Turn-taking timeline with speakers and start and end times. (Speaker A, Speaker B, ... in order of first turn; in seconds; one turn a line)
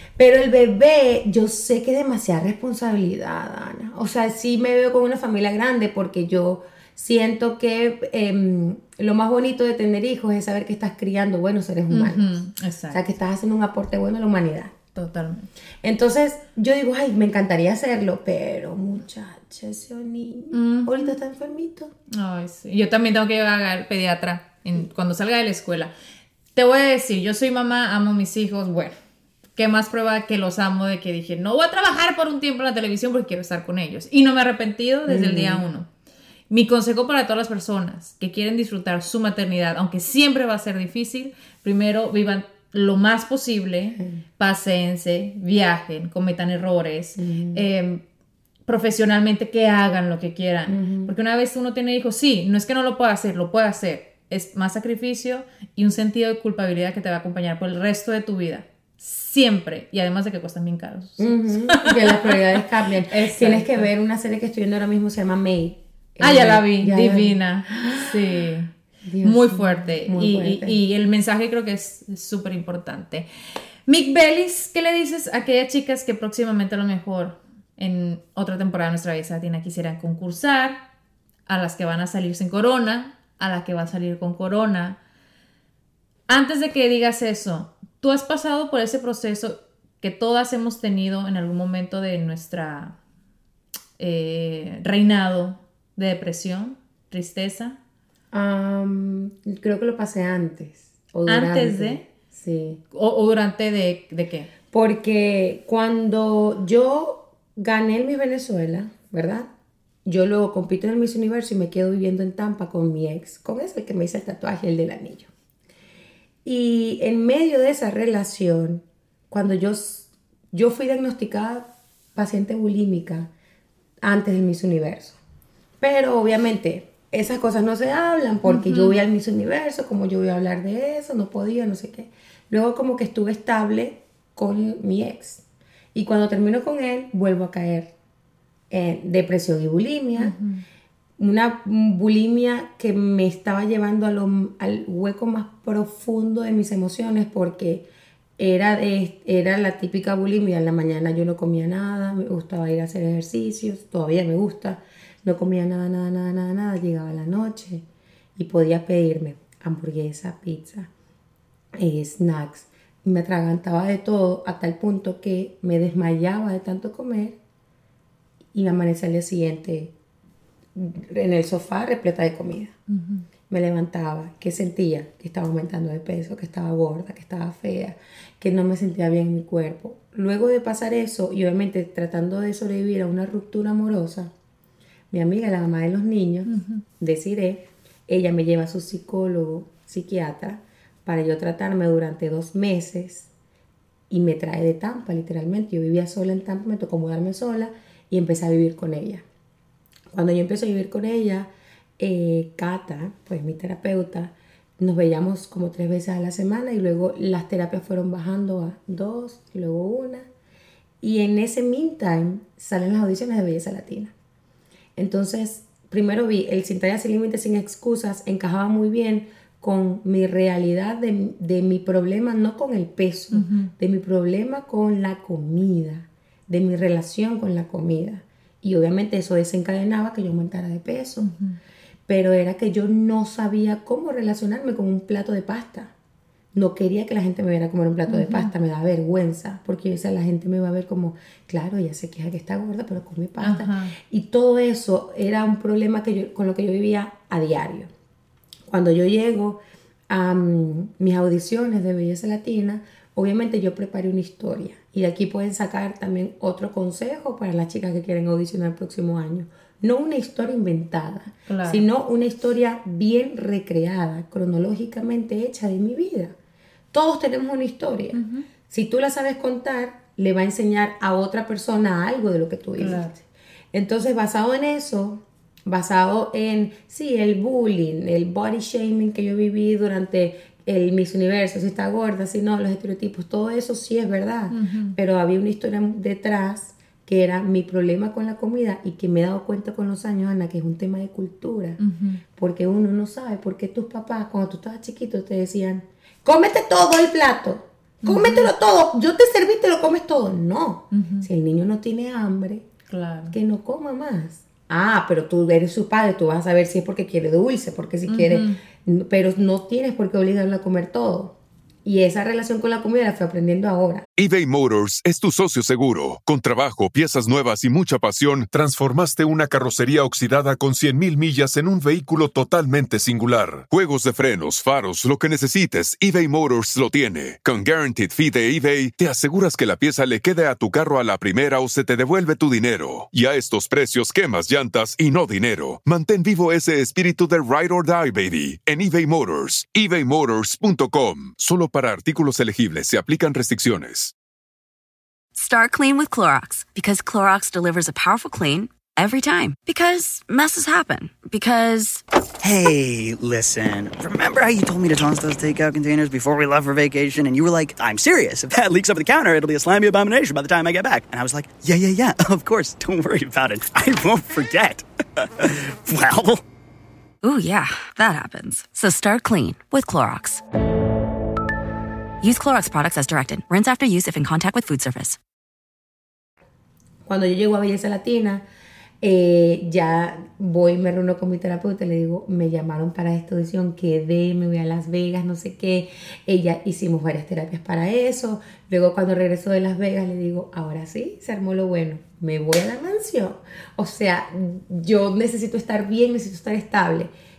Speaker A: 0.2-14.8
Speaker B: 11.9-13.0
Speaker B: 14.9-15.5
Speaker A: 15.8-21.9
Speaker B: 20.5-21.1
Speaker B: 22.1-25.9
Speaker B: 26.6-29.0
Speaker B: 29.6-35.9
Speaker A: 35.1-35.6
Speaker B: 36.5-48.0
Speaker A: 47.2-47.7
Speaker B: 48.7-62.4
Speaker A: 50.7-51.1
Speaker A: 61.2-68.2
Speaker B: 63.1-63.9
Speaker B: 66.2-68.7
Speaker A: 69.0-70.8
Speaker B: 69.2-73.3
Speaker B: 73.9-80.8
Speaker B: 81.5-85.0
Speaker B: 86.3-93.0
Speaker B: 94.0-97.8
Speaker A: 98.3-102.8
Speaker B: 101.3-102.0
Speaker B: 102.9-104.5
Speaker A: 104.7-109.5
Speaker A: 110.0-115.3
Speaker A: 116.5-123.3
Speaker A: 124.0-125.2
Speaker A: 125.8-135.4
Speaker B: 128.5-129.0
Speaker A: 135.9-137.9
Speaker A: 138.7-140.4
Speaker B: 140.2-140.6
Speaker A: 141.2-147.9
Speaker A: 148.4-157.8
Speaker A: 158.4-160.9
Speaker A: 161.8-167.4
Speaker A: 168.5-169.9
Speaker A: 170.8-172.8
Speaker B: 172.9-173.3
Speaker A: 173.5-184.3
Speaker A: 185.1-193.3
Speaker B: 186.5-186.8
Speaker A: 194.1-199.2
Speaker A: 200.1-210.3
Speaker A: 211.0-214.1
Speaker A: 215.0-231.3
Speaker B: 223.3-223.7
Speaker B: 231.2-231.6
Speaker A: 232.1-235.9
Speaker A: 236.5-247.9
Speaker B: 238.1-238.5
Speaker B: 243.4-243.9
Speaker A: 248.7-266.4
Speaker B: 261.5-261.8
Speaker A: 266.9-291.8
Speaker B: 268.1-268.5
Speaker B: 272.8-273.1
Speaker B: 284.5-285.0
Speaker B: 291.8-292.2
Speaker A: 292.4-302.6
Speaker B: 298.0-298.5
Speaker B: 300.9-301.3
Speaker B: 302.9-303.4
Speaker A: 303.3-314.1
Speaker B: 308.1-308.6
Speaker C: 314.2-344.1
Speaker D: 345.4-352.0
Speaker E: 352.4-366.4
Speaker D: 367.2-370.4
Speaker D: 372.2-375.2
Speaker A: 377.1-378.4
Speaker A: 379.0-397.1